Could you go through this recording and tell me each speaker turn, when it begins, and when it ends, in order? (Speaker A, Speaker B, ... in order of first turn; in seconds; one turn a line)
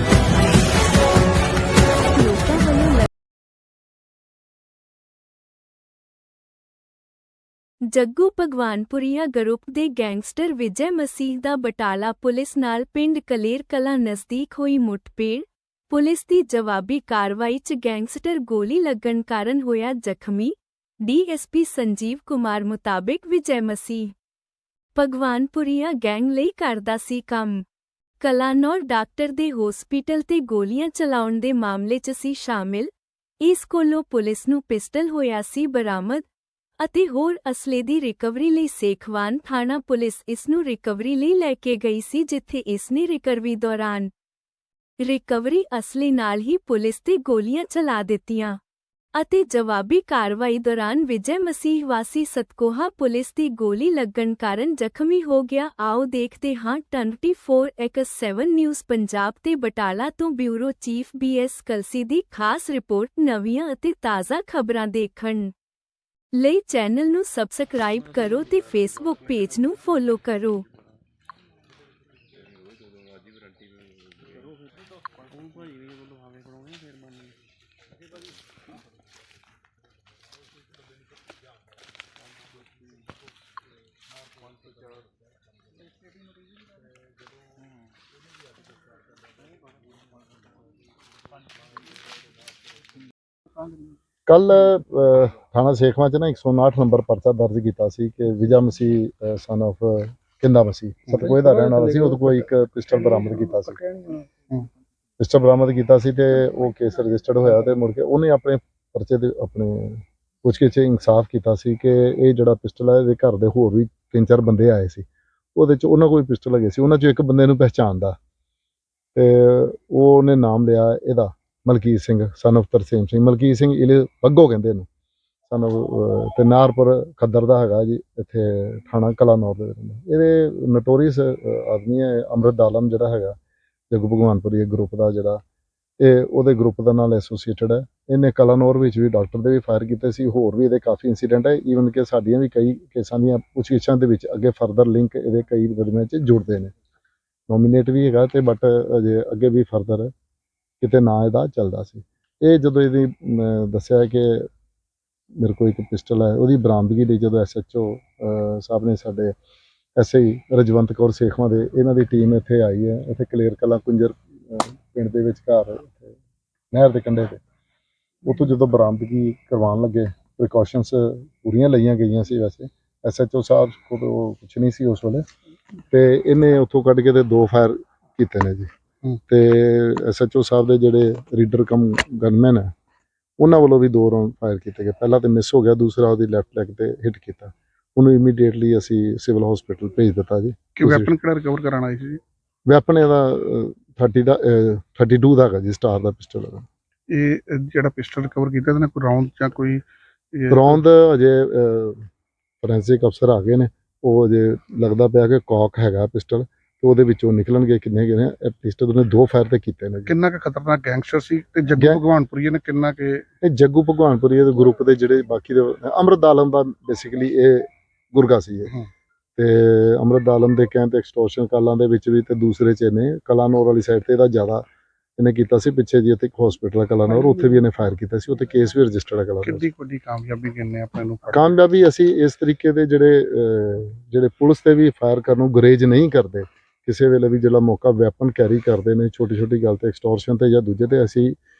Speaker A: 2.1-3.0
Speaker A: 7.9-24.1
Speaker A: 24.9-27.6
Speaker A: 28.2-36.2
Speaker A: 36.8-44.1
Speaker A: 45.0-48.6
Speaker A: 49.1-65.5
Speaker A: 66.3-70.6
Speaker B: 94.3-103.8
Speaker C: 104.2-104.7
Speaker B: 105.2-118.2
Speaker B: 119.1-124.9
Speaker B: 125.5-133.3
Speaker B: 133.9-135.4
Speaker B: 136.0-146.7
Speaker B: 147.5-150.1
Speaker B: 150.8-154.5
Speaker B: 155.4-159.3
Speaker B: 160.0-166.2
Speaker B: 166.7-167.4
Speaker B: 168.2-175.2
Speaker B: 175.9-178.7
Speaker B: 179.3-182.7
Speaker B: 183.4-191.1
Speaker C: 190.8-192.2
Speaker B: 192.7-196.7
Speaker C: 197.1-200.8
Speaker B: 200.5-202.1
Speaker B: 202.6-210.2
Speaker C: 210.1-213.2
Speaker B: 213.4-218.8
Speaker B: 219.4-224.6
Speaker B: 225.2-229.6
Speaker C: 229.4-231.5
Speaker B: 231.3-241.3